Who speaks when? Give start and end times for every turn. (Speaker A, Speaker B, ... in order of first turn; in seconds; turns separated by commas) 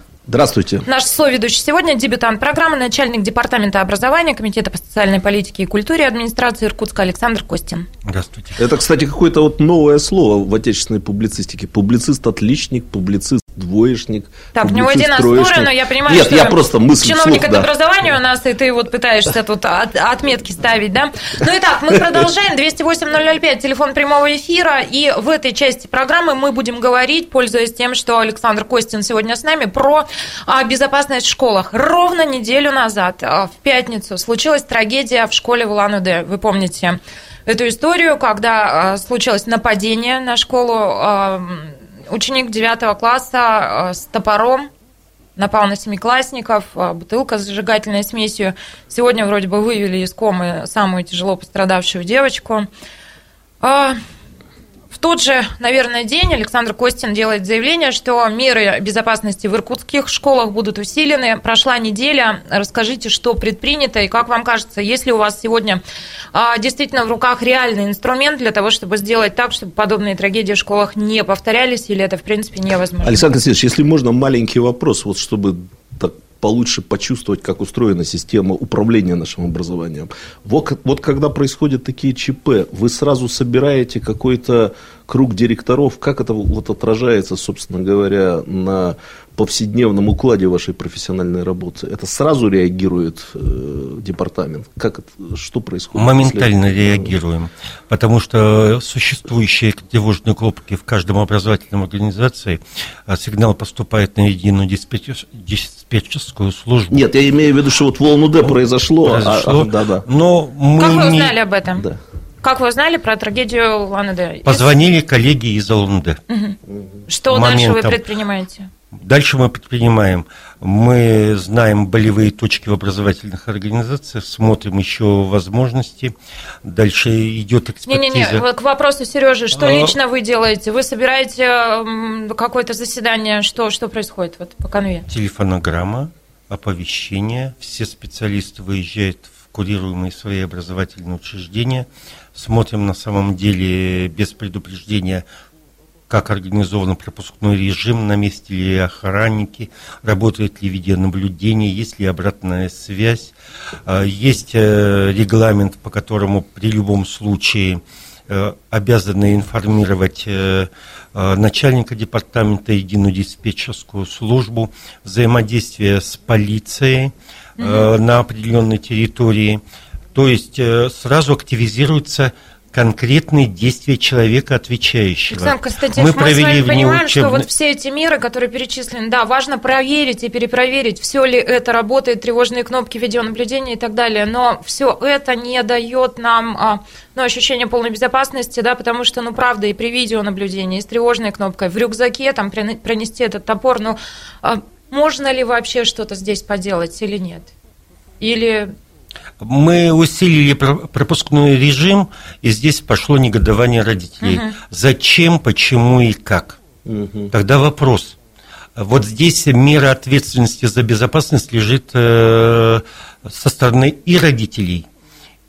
Speaker A: 0.3-0.9, Speaker B: 0.9-7.9, Speaker C: 8.0-8.6, Speaker A: 8.6-17.7, Speaker B: 14.5-44.7, Speaker B: 45.4-52.7, Speaker B: 53.6-54.0, Speaker B: 54.9-65.8, Speaker B: 66.3-73.2, Speaker A: 73.0-97.1, Speaker C: 96.0-107.0, Speaker A: 106.9-110.0, Speaker C: 109.0-111.3, Speaker B: 110.8-111.9, Speaker B: 112.4-114.7, Speaker C: 114.5-116.2, Speaker B: 116.3-116.6, Speaker B: 117.1-118.7, Speaker C: 117.3-118.0, Speaker C: 119.0-128.4, Speaker B: 127.9-135.1, Speaker C: 129.5-129.9, Speaker C: 135.1-145.2, Speaker C: 146.1-153.3, Speaker C: 153.9-169.6, Speaker B: 167.6-167.9, Speaker C: 170.2-177.5, Speaker B: 175.3-197.5, Speaker B: 198.2-198.7, Speaker C: 199.4-206.6, Speaker B: 204.2-204.6, Speaker A: 206.9-207.3, Speaker C: 207.3-208.2, Speaker C: 208.8-214.9